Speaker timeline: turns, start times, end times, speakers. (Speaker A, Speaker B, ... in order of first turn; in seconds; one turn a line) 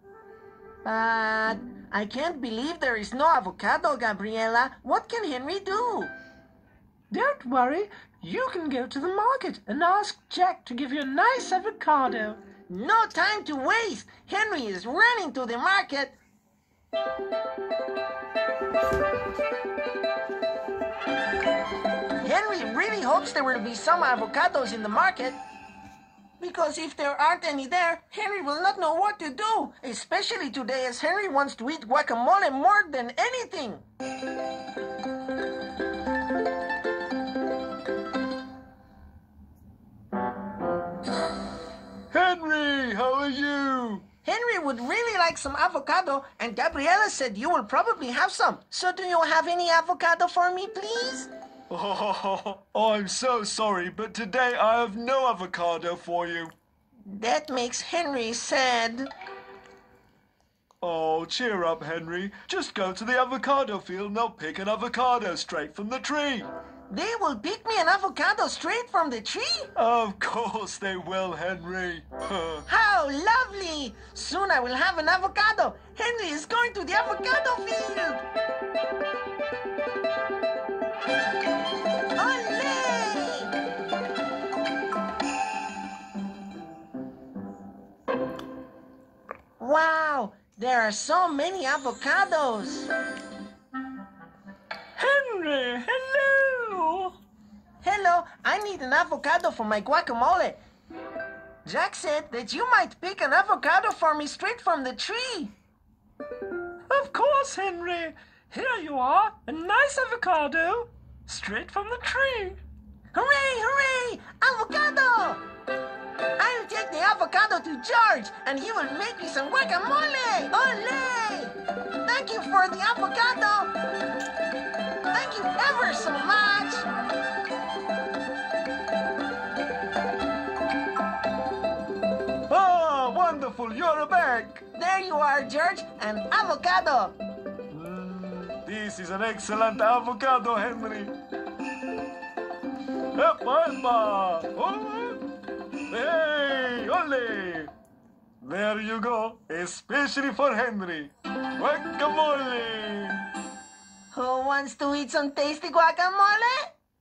Speaker A: 0.8-6.1
Speaker B: 7.1-12.4
Speaker A: 12.7-16.2
Speaker A: 22.2-25.4
Speaker A: 26.4-33.8
Speaker C: 42.1-44.0
Speaker A: 44.2-51.3
Speaker C: 51.7-56.5
Speaker A: 57.0-59.1
Speaker C: 60.8-66.5
Speaker A: 66.9-69.7
Speaker C: 69.8-72.7
Speaker A: 72.7-78.2
Speaker A: 82.2-83.5
Speaker A: 89.6-92.9
Speaker C: 95.0-97.2
Speaker A: 97.8-100.6
Speaker A: 101.7-105.5
Speaker B: 106.9-107.3
Speaker C: 107.0-108.1
Speaker B: 108.5-110.9
Speaker C: 111.3-112.6
Speaker B: 111.6-111.9
Speaker A: 113.1-115.4
Speaker A: 116.4-123.7
Speaker A: 125.1-126.9
Speaker C: 132.5-134.7
Speaker A: 134.7-137.2
Speaker C: 137.7-141.2
Speaker C: 143.2-145.2
Speaker C: 145.9-147.7
Speaker C: 148.4-153.2
Speaker A: 154.1-156.7